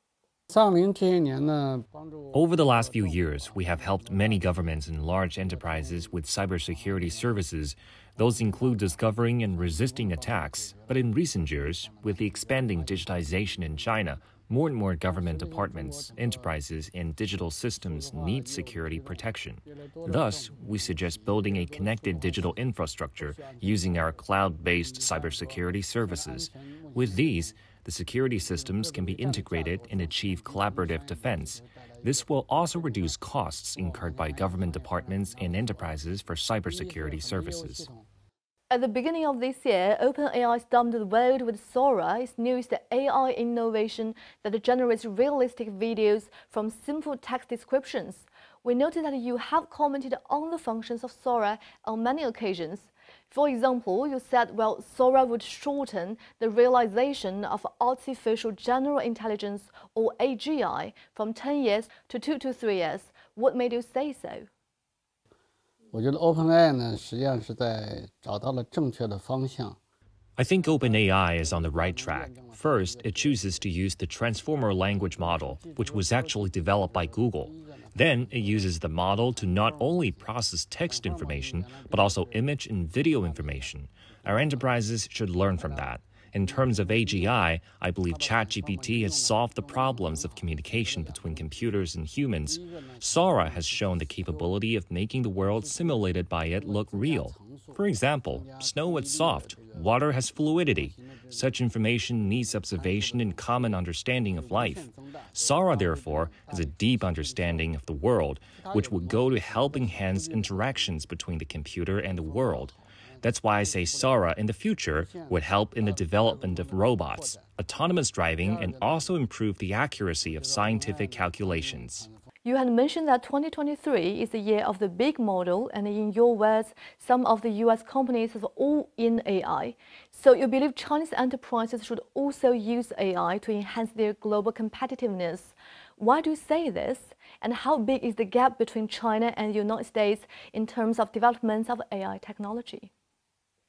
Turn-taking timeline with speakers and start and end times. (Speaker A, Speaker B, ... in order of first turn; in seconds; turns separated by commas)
Speaker A: 0.5-4.9, Speaker B: 2.3-37.9, Speaker A: 5.4-7.4, Speaker A: 8.2-14.2, Speaker A: 15.1-16.6, Speaker A: 17.8-27.6, Speaker A: 28.4-33.2, Speaker A: 33.7-36.0, Speaker A: 36.7-38.1, Speaker C: 38.7-64.5, Speaker A: 65.9-69.8, Speaker B: 70.4-122.1, Speaker A: 70.6-73.9, Speaker A: 74.9-80.3, Speaker A: 80.8-84.7, Speaker A: 85.5-87.5, Speaker A: 88.1-91.7, Speaker A: 92.4-94.6, Speaker A: 95.3-101.6, Speaker A: 102.7-103.7, Speaker A: 104.3-107.7, Speaker A: 108.6-111.0, Speaker A: 112.0-114.3, Speaker A: 115.0-117.5, Speaker A: 118.4-119.2, Speaker A: 120.2-122.2, Speaker C: 122.4-142.9